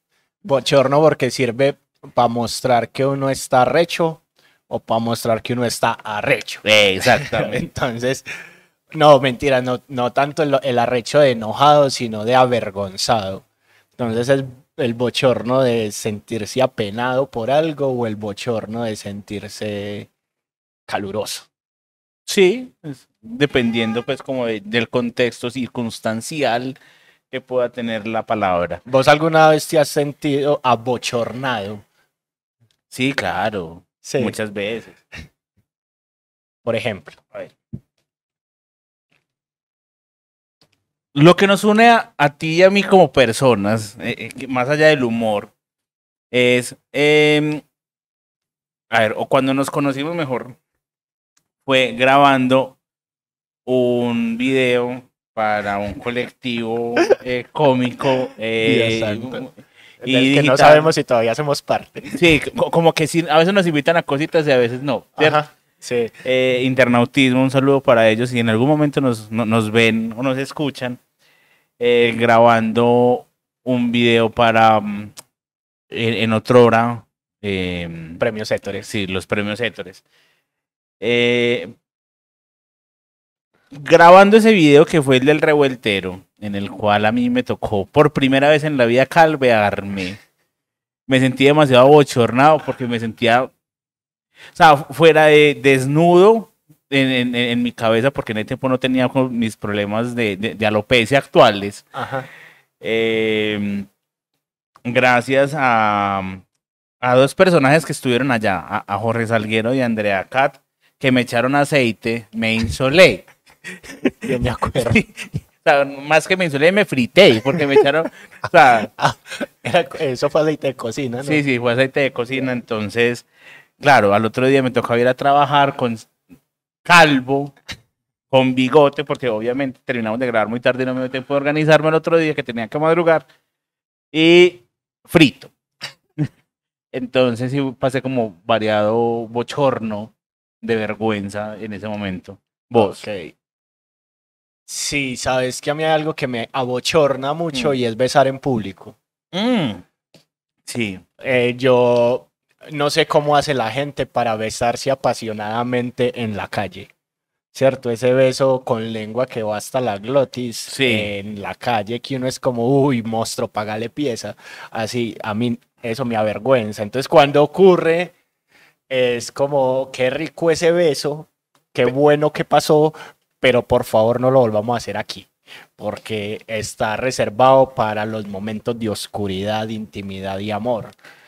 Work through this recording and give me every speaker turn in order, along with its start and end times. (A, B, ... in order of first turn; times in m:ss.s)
0:00.4-0:08.2 A
0:06.6-0:07.6 B
0:08.9-0:13.4 A
0:14.0-0:20.1 A
0:20.9-0:21.5 A
0:22.3-0:26.8 B
0:27.3-0:28.8 B
0:28.8-0:31.8 A
0:32.9-0:35.0 B
0:34.0-0:34.4 A
0:36.6-0:37.2 A
0:41.1-0:45.5 B
0:46.3-0:47.6 B
0:48.9-0:50.6 B
0:51.6-0:52.8 B
0:53.6-1:00.9 B
0:58.6-0:59.5 A
1:00.0-1:02.2 A
1:02.1-1:05.4 B
1:05.2-1:06.1 A
1:06.2-1:11.0 B
1:11.8-1:15.1 B
1:15.9-1:18.2 B
1:18.2-1:18.8 A
1:18.8-1:20.0 B
1:21.0-1:21.7 B
1:23.7-1:30.2 B
1:31.1-1:33.5 B
1:34.5-1:41.9 B
1:41.9-1:42.3 A
1:42.8-1:43.9 B
1:44.8-1:46.4 B
1:47.0-1:53.3 B
1:54.1-1:55.0 A
1:54.8-1:58.9 B
1:58.9-2:01.4 A
2:01.2-2:03.2 B
2:03.8-2:06.1 B
2:06.8-2:07.5 B
2:08.3-2:13.3 B
2:14.1-2:15.5 B
2:16.9-2:23.0 B
2:22.8-2:23.3 A
2:24.7-2:29.0 A
2:29.3-2:29.8 B
2:30.6-2:31.0 B
2:31.2-2:36.9 A
2:37.5-2:48.1 A
2:40.7-2:41.1 B
2:48.9-3:00.9 A